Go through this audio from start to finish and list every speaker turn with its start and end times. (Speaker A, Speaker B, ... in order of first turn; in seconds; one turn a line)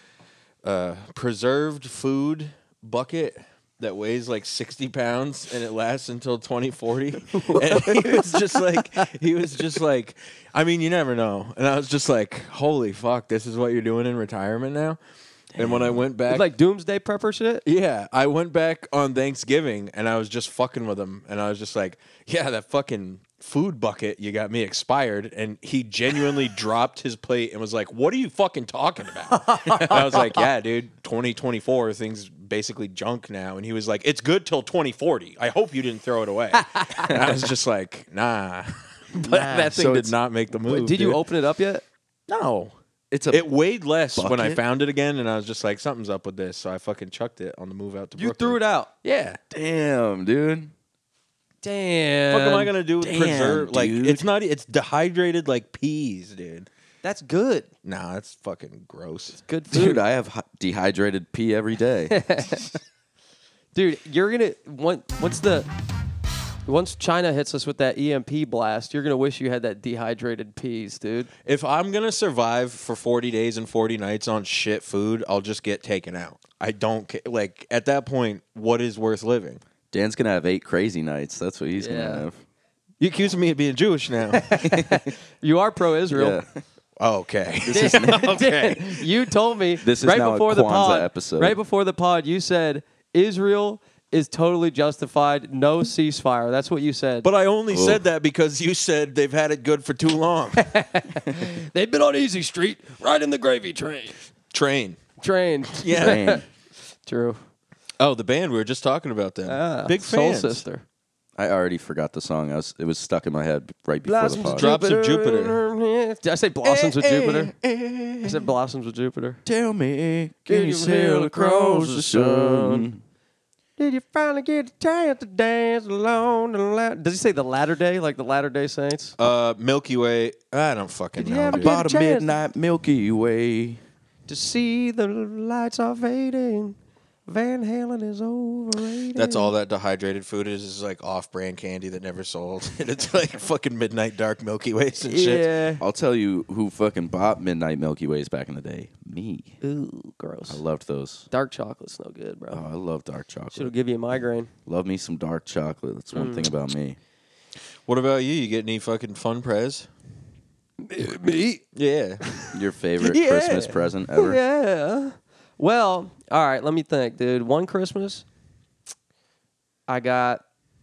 Speaker A: 0.6-15.0
Speaker B: 7.3-9.0
Speaker C: 15.6-16.0
Speaker A: 15.6-16.5
Speaker B: 16.3-17.6
Speaker A: 17.6-41.2
Speaker B: 29.3-30.4
Speaker B: 36.6-37.2
Speaker B: 39.1-41.8
Speaker C: 39.6-40.1
Speaker A: 42.3-42.7
Speaker C: 43.1-43.5
Speaker A: 43.3-48.6
Speaker C: 44.1-44.6
Speaker B: 48.2-49.4
Speaker C: 49.5-50.7
Speaker B: 51.6-52.7
Speaker A: 52.3-56.7
Speaker C: 53.0-54.3
Speaker B: 57.0-57.7
Speaker A: 57.8-59.4
Speaker B: 59.4-60.0
Speaker C: 59.7-62.2
Speaker B: 62.1-62.6
Speaker B: 63.7-65.7
Speaker B: 66.6-71.3
Speaker A: 71.4-79.6
Speaker C: 79.9-82.4
Speaker B: 81.8-82.2
Speaker A: 83.0-84.5
Speaker B: 84.3-86.4
Speaker C: 84.7-85.0
Speaker C: 86.1-86.6
Speaker A: 87.0-89.0
Speaker C: 87.6-88.6
Speaker B: 87.7-97.3
Speaker C: 89.8-91.6
Speaker A: 97.2-100.7
Speaker C: 97.7-98.0
Speaker B: 100.5-104.2
Speaker A: 104.5-105.0
Speaker B: 105.2-106.4
Speaker A: 105.8-106.2
Speaker C: 105.9-106.4
Speaker B: 107.0-107.4
Speaker A: 108.0-110.6
Speaker B: 109.5-110.8
Speaker C: 111.3-114.7
Speaker B: 114.0-117.5
Speaker A: 114.4-115.6
Speaker A: 116.6-118.5
Speaker B: 118.2-119.4
Speaker C: 119.4-123.0
Speaker B: 120.5-122.9
Speaker B: 123.8-129.2
Speaker A: 129.2-131.7
Speaker B: 131.2-132.3
Speaker C: 131.5-133.8
Speaker B: 134.3-139.5
Speaker A: 139.1-145.5
Speaker B: 145.0-145.8
Speaker C: 145.8-149.6
Speaker B: 149.6-150.6
Speaker C: 150.5-151.3
Speaker B: 151.3-152.6
Speaker C: 152.5-153.7
Speaker B: 153.5-154.5
Speaker C: 154.7-157.0
Speaker B: 156.1-156.5
Speaker A: 157.9-159.9
Speaker B: 160.8-161.6
Speaker A: 161.7-162.2
Speaker B: 162.2-168.2
Speaker C: 162.5-164.4
Speaker B: 169.9-170.4